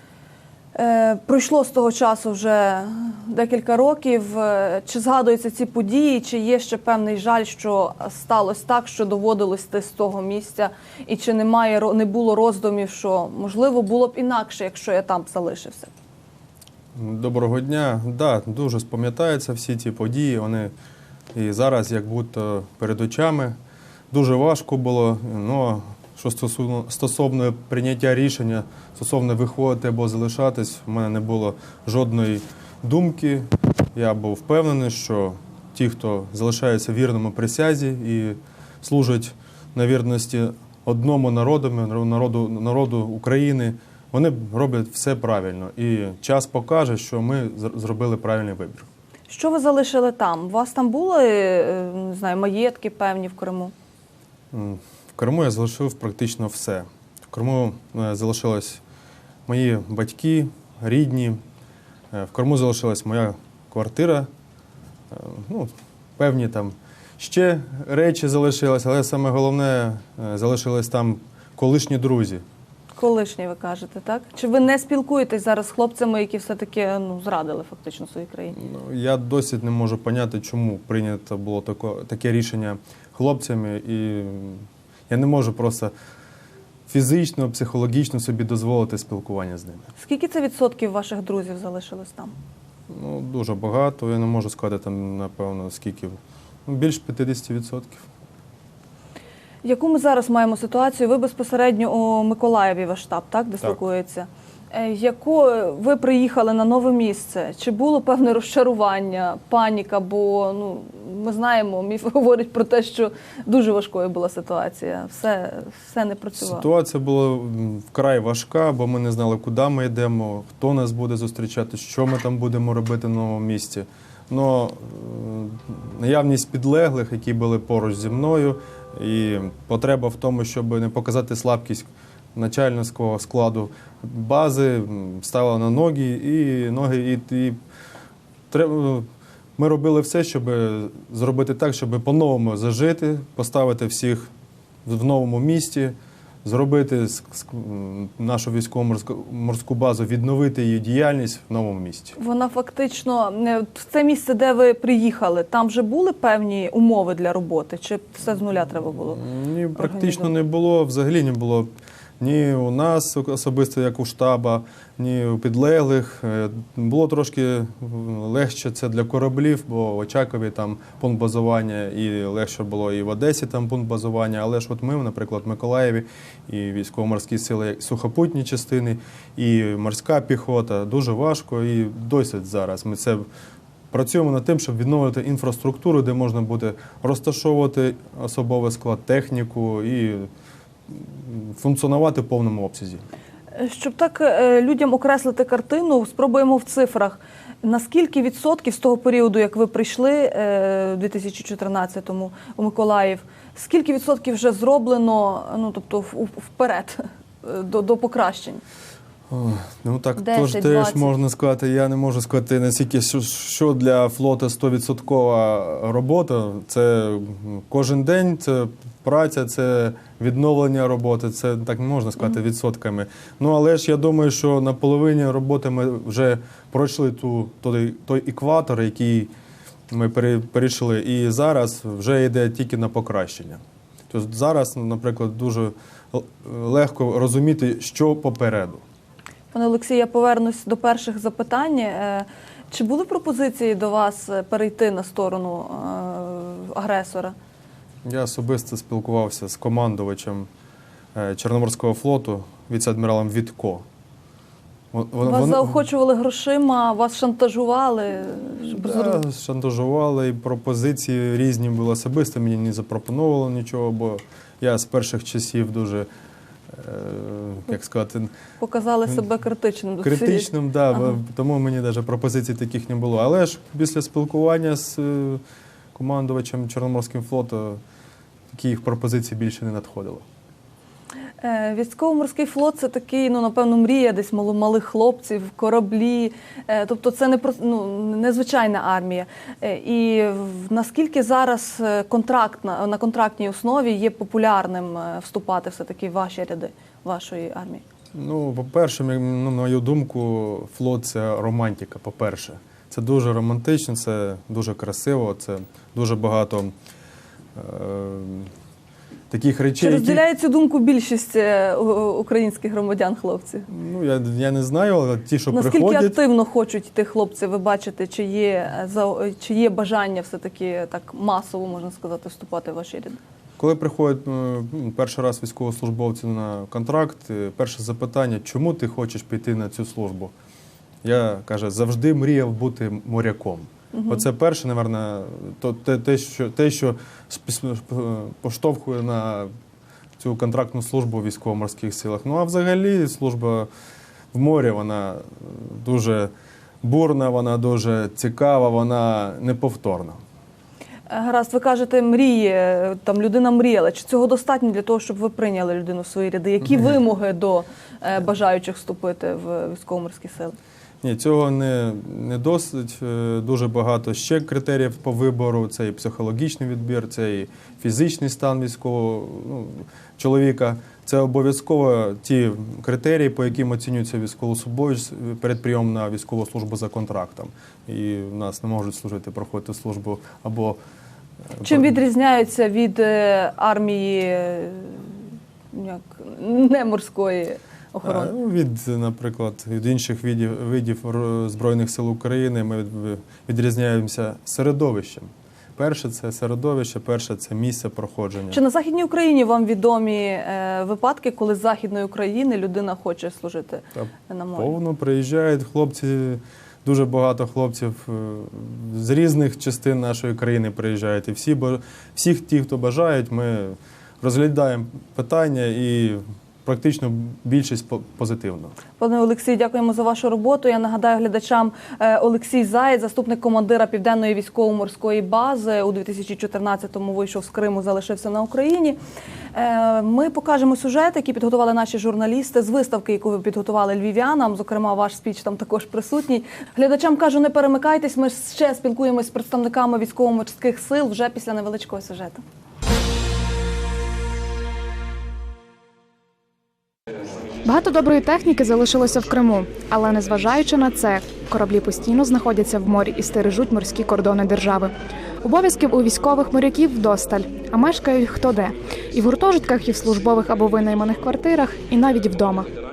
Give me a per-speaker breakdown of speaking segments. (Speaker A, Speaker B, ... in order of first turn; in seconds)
Speaker A: 0.7-15.9, 49.3-53.7, 73.0-78.5, 90.0-92.3, 99.6-116.7, 152.2-159.2, 159.8-160.3, 193.5-208.6, 210.2-211.1, 239.5-247.3, 255.2-259.2, 268.6-270.5, 281.4-297.8, 309.8-313.6, 315.5-323.2, 333.9-334.2, 351.1-360.6, 381.6-385.2, 385.7-388.3, 398.5-404.7, 419.0-429.0, 429.5-442.4
Speaker B: 16.9-20.7, 21.3-23.6, 24.1-48.9, 54.5-58.8, 59.5-61.4, 62.1-64.3, 65.1-72.4, 78.6-85.9, 86.9-89.9, 92.9-98.0, 116.4-137.6, 138.5-144.3, 144.8-152.1, 159.1-183.2, 183.9-190.3, 190.9-193.0, 209.3-229.3, 229.9-238.8, 248.0-250.5, 251.1-253.8, 254.9-255.8, 258.8-266.1, 266.7-268.3, 270.0-275.4, 275.9-277.8, 278.5-280.2, 298.1-306.7, 307.5-308.5, 309.3-310.2, 313.7-316.2, 323.6-330.3, 331.0-339.5, 340.2-343.7, 344.3-346.3, 346.8-350.2, 361.0-380.8, 381.5-381.9, 388.0-398.6, 403.9-418.7
Speaker C: 447.6-462.7